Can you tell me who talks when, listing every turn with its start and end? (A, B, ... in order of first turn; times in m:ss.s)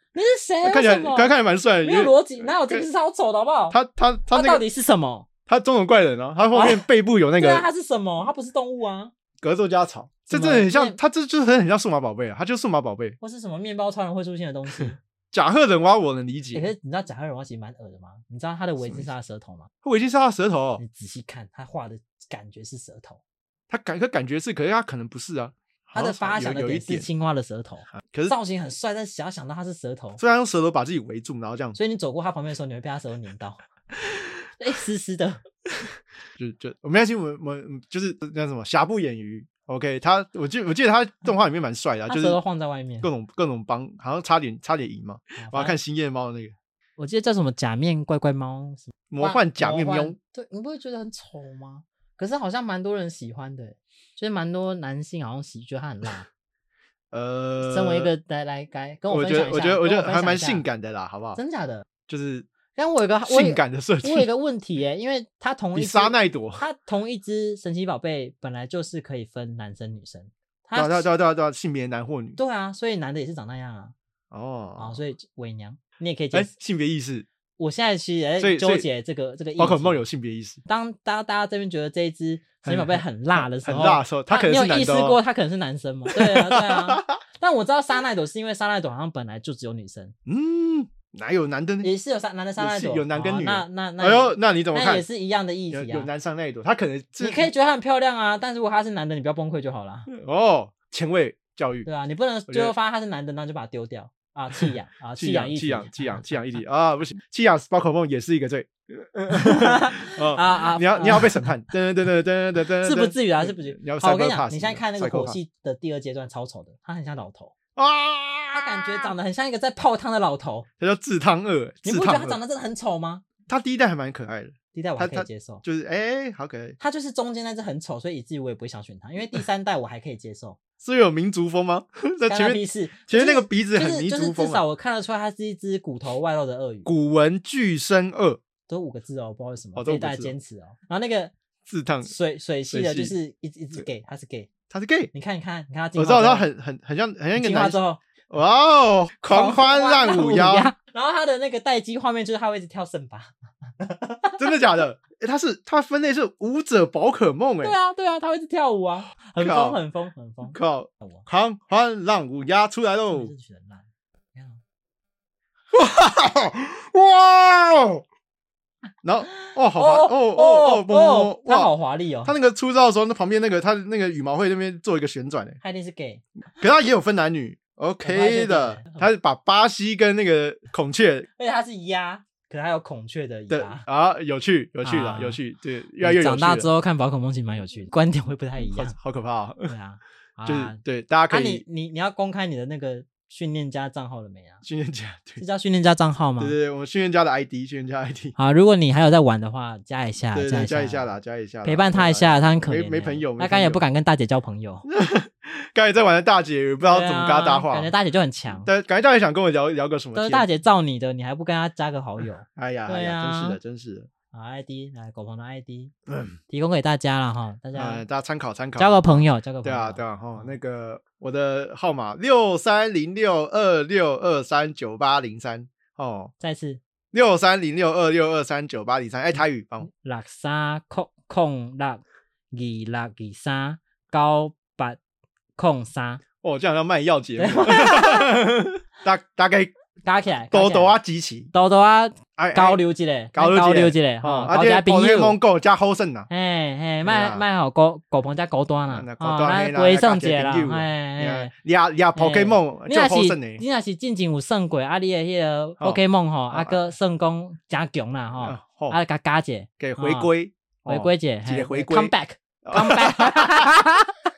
0:00.1-0:01.3 A
0:00.6-0:02.8 B
0:01.8-0:03.8 A
0:03.7-0:04.6 B
0:04.3-0:05.3 A
0:05.5-0:07.7 B
0:06.5-0:06.8 A
0:07.4-0:09.1 A
0:09.4-0:13.2 B
0:10.3-0:11.0 A
0:13.2-0:15.0 A
0:14.7-0:16.7 B
0:16.5-0:19.7 A
0:19.8-0:20.8 B
0:20.8-0:23.2 A
0:23.7-0:27.1 B
0:25.9-0:30.2 A
0:27.9-0:28.4 B
0:30.2-0:31.8 B
0:31.8-0:33.6 A
0:34.6-0:35.4 A
0:36.4-0:42.4 B
0:42.1-0:43.1 A
0:43.0-0:46.5 B
0:45.4-0:45.8 A
0:47.0-0:56.3 A
0:49.1-0:50.2 B
0:57.1-0:58.1 B
0:57.6-1:00.6 A
0:59.1-1:01.4 B
1:01.4-1:01.8 A
1:02.1-1:02.5 B
1:02.7-1:11.1 A
1:03.2-1:04.3 B
1:05.7-1:06.6 B
1:10.7-1:12.4 B
1:12.4-1:13.9 A
1:14.3-1:15.0 B
1:14.8-1:16.5 A
1:16.3-1:17.3 B
1:17.6-1:20.0 A
1:18.4-1:18.9 B
1:19.6-1:20.6 B
1:20.6-1:30.1 A
1:22.6-1:25.2 B
1:26.1-1:27.2 B
1:30.2-1:31.9 B
1:31.8-1:36.1 A
1:32.6-1:35.0 B
1:35.7-1:37.5 B
1:37.2-1:40.1 A
1:40.1-1:41.9 B
1:41.8-1:46.3 A
1:42.5-1:42.7 B
1:44.6-1:55.4 B
1:49.3-1:51.5 A
1:52.8-1:57.5 A
1:57.8-1:59.1 B
1:58.5-2:00.7 A
2:00.8-2:02.4 B
2:01.8-2:03.2 A
2:03.5-2:06.8 B
2:04.7-2:05.6 A
2:06.8-2:10.6 A
2:10.8-2:14.6 B
2:12.2-2:16.9 A
2:16.8-2:18.4 B
2:18.7-2:21.3 A
2:19.8-2:20.3 B
2:21.6-2:22.1 B
2:22.0-2:24.5 A
2:22.7-2:23.1 B
2:24.7-2:25.1 B
2:25.1-2:26.5 A
2:26.0-2:30.7 B
2:27.4-2:28.0 A
2:29.3-2:34.5 A
2:34.4-2:37.8 B
2:37.6-2:41.2 A
2:39.4-2:39.8 B
2:40.4-2:43.3 B
2:43.1-2:44.6 A
2:45.7-2:48.0 B
2:49.0-2:51.7 B
2:49.7-2:52.3 A
2:52.2-2:55.6 B
2:55.6-2:56.2 A
2:56.6-3:01.3 B
2:58.0-2:59.1 A
3:01.4-3:03.8 A
3:03.5-3:06.7 B
3:04.8-3:05.4 A
3:06.0-3:09.0 A
3:08.6-3:09.7 B
3:09.6-3:10.8 A
3:10.4-3:11.6 B
3:11.3-3:14.6 A
3:14.6-3:15.4 B
3:15.4-3:16.6 A
3:16.4-3:18.3 B
3:18.4-3:21.1 A
3:20.3-3:23.8 B
3:21.6-3:24.8 A
3:24.8-3:27.9 B
3:26.8-3:28.7 A
3:28.6-3:30.5 B
3:30.1-3:33.6 A
3:32.5-3:34.1 B
3:34.3-3:35.9 A
3:36.1-3:36.4 B
3:36.5-3:38.0 A
3:37.7-3:46.3 B
3:38.8-3:40.6 A
3:46.4-3:46.8 A
3:47.1-3:49.9 B
3:49.9-3:55.0 A
3:55.6-3:56.2 A
3:56.4-3:59.7 B
3:57.4-3:58.3 A
4:00.0-4:00.9 A
4:00.5-4:01.5 B
4:01.5-4:05.4 A
4:02.4-4:02.8 B
4:03.3-4:06.3 B
4:06.3-4:11.5 A
4:07.0-4:07.4 B
4:08.9-4:13.6 B
4:12.2-4:20.3 A
4:16.5-4:16.8 B
4:18.4-4:19.0 B
4:19.8-4:23.7 B
4:20.9-4:24.1 A